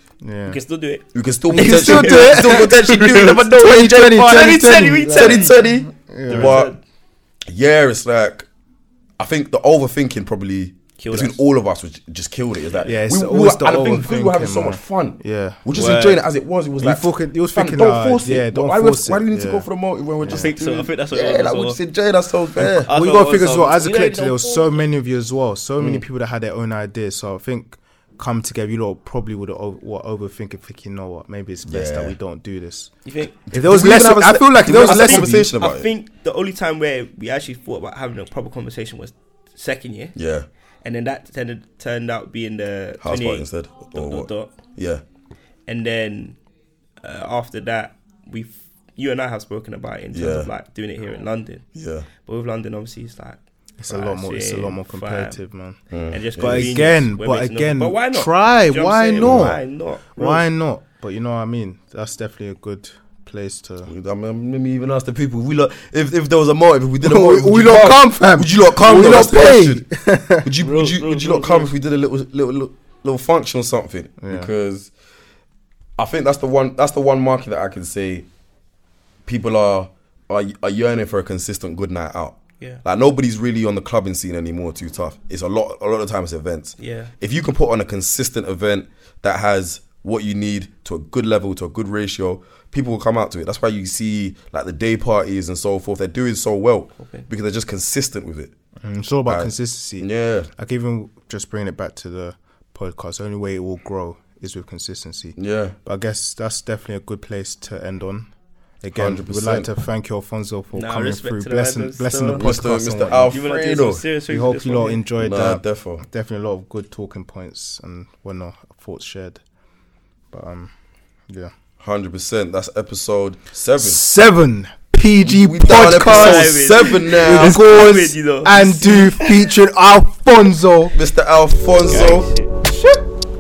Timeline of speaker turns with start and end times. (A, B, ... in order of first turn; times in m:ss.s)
0:00.2-0:00.6 A
0:00.5-0:03.3 B
0:01.1-0:06.7 C
0:01.5-0:06.7 A
0:04.1-0:05.6 B
0:06.3-0:06.8 B
0:07.5-0:08.5 C
0:09.2-0:22.9 C
0:11.0-0:11.4 B
0:12.8-0:15.7 A
0:15.7-0:16.2 B
0:16.8-0:19.7 A
0:20.2-0:20.5 A
0:20.3-0:21.8 B
0:22.6-0:32.9 A
0:22.6-0:24.8 B
0:25.8-0:26.0 C
0:31.7-0:32.2 C
0:33.0-0:33.4 B
0:33.5-0:35.9 C
0:33.5-0:35.5 A
0:34.7-0:40.2 B
0:40.2-0:40.5 C
0:40.8-0:44.6 B
0:43.0-0:45.0 C
0:45.7-0:46.4 B
0:47.0-0:51.6 B
0:50.1-0:50.5 C
0:51.7-0:52.1 C
0:52.2-0:55.4 B
0:53.8-0:55.8 A
0:55.9-0:56.8 C
0:56.1-1:00.5 B
0:56.4-0:59.6 A
0:59.2-0:59.6 C
1:00.2-1:03.9 A
1:03.9-1:09.8 C
1:07.0-1:10.5 A
1:10.4-1:14.9 C
1:10.6-1:11.7 B
1:14.2-1:14.5 A
1:16.0-1:18.3 C
1:19.3-1:38.5 C
1:26.8-1:27.1 B
1:37.0-1:37.3 B
1:38.8-1:48.3 A
1:39.3-1:40.5 C
1:45.4-1:45.8 C
1:48.8-1:53.4 A
1:48.9-1:49.7 C
1:50.7-1:52.5 B
1:52.4-1:54.1 C
1:53.3-1:55.1 B
1:54.3-1:59.4 A
1:55.2-1:56.0 C
2:00.3-2:00.7 A
2:01.8-2:04.1 C
2:03.8-2:11.0 A
2:05.2-2:07.6 C
2:05.8-2:09.5 B
2:11.0-2:12.3 C
2:11.8-2:12.7 B